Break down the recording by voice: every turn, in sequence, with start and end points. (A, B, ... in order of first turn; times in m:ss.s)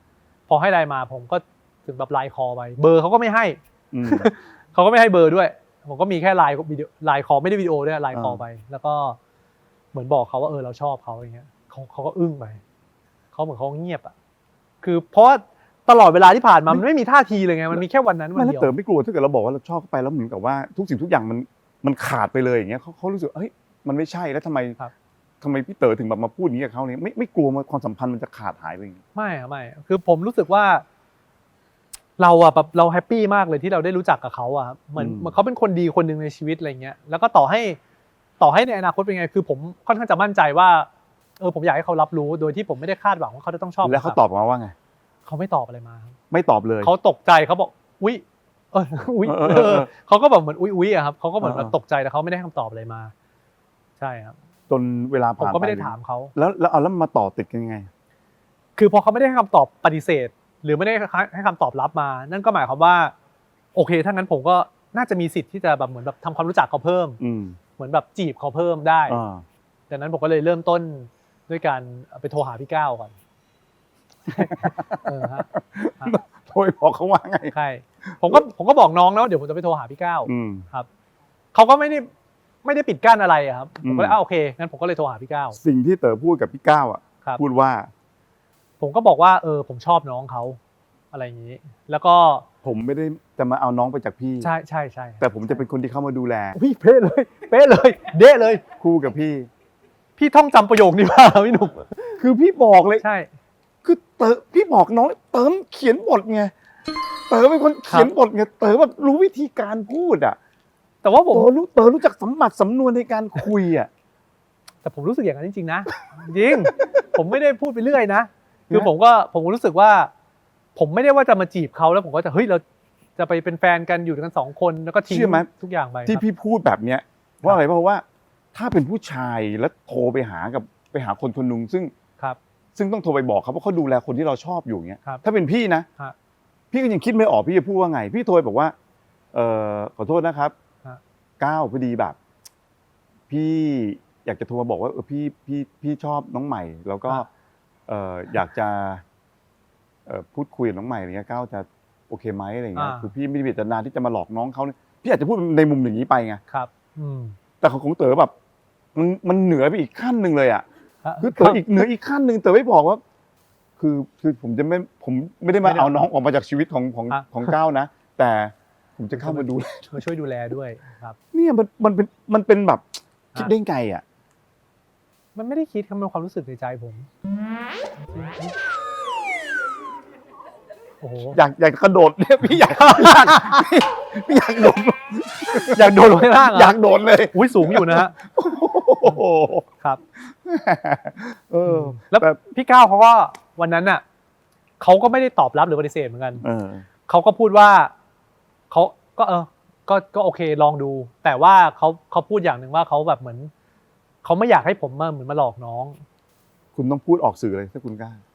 0:00.5-0:09.2 A
0:03.9-0:04.3 B
0:08.1-0:08.4 B
0:09.9-0:12.6 A
0:13.3-0:14.1 A
0:14.8-0:18.7 A
0:18.3-0:24.8 B
0:25.4-0:29.0 B
0:29.1-0:30.8 A
0:32.2-0:37.8 A
0:35.0-0:35.3 B
0:38.4-0:40.9 A
0:41.4-0:44.2 A
0:43.8-0:44.7 B
0:45.2-0:46.2 A
0:46.3-0:46.9 B
0:46.8-0:53.1 A
0:49.2-0:49.9 B
0:51.4-0:51.7 B
0:54.0-0:54.4 A
0:54.7-0:57.9 B
0:55.4-0:56.3 A
0:58.8-1:03.1 A
1:03.7-1:07.2 A
1:07.2-1:07.6 B
1:07.8-1:09.2 A
1:09.1-1:09.4 B
1:09.9-1:13.1 A
1:14.2-1:15.5 A
1:14.4-1:17.5 B
1:17.5-1:20.9 A
1:18.0-1:18.4 B
1:20.2-1:20.6 B
1:21.5-1:22.1 A
1:22.6-1:25.6 A
1:23.8-1:24.2 B
1:25.5-1:27.9 B
1:28.8-1:30.6 A
1:31.1-1:32.4 A
1:32.6-1:34.5 B
1:34.4-1:35.6 A
1:35.2-1:36.6 B
1:36.5-1:38.6 A
1:38.8-1:39.5 B
1:40.2-1:42.2 A
1:42.2-1:43.0 B
1:43.0-1:43.3 A
1:43.8-1:46.5 B
1:47.3-1:50.4 B
1:47.9-1:48.1 A
1:51.0-1:51.5 A
1:51.3-1:53.9 B
1:54.8-2:00.1 A
1:56.8-1:57.1 B
2:00.8-2:02.6 A
2:03.2-2:06.2 A
2:05.1-2:05.5 B
2:06.0-2:11.9 B
2:12.8-2:15.9 B
2:16.7-2:18.7 B
2:19.3-2:20.5 B
2:21.4-2:22.2 B
2:23.3-2:27.3 B
2:27.9-2:29.0 B
2:30.0-2:36.4 B
2:32.7-2:33.1 A
2:36.5-2:37.4 A
2:37.6-2:38.3 B
2:38.9-2:40.6 B
2:41.0-2:41.9 A
2:41.2-2:43.0 B
2:43.8-2:50.0 B
2:45.6-2:46.0 A
2:47.1-2:47.5 A
2:49.1-2:51.2 A
2:51.3-2:54.0 B
2:55.3-2:57.1 A
2:58.1-2:58.5 A
3:01.0-3:01.4 A
3:01.3-3:09.7 B
3:02.5-3:03.6 A
3:05.7-3:06.8 A
3:07.3-3:08.1 A
3:10.3-3:12.4 B
3:11.6-3:14.0 A
3:14.8-3:16.4 A
3:16.4-3:16.9 B
3:17.1-3:17.9 A
3:18.7-3:23.5 A
3:24.2-3:26.0 A
3:26.7-3:28.2 B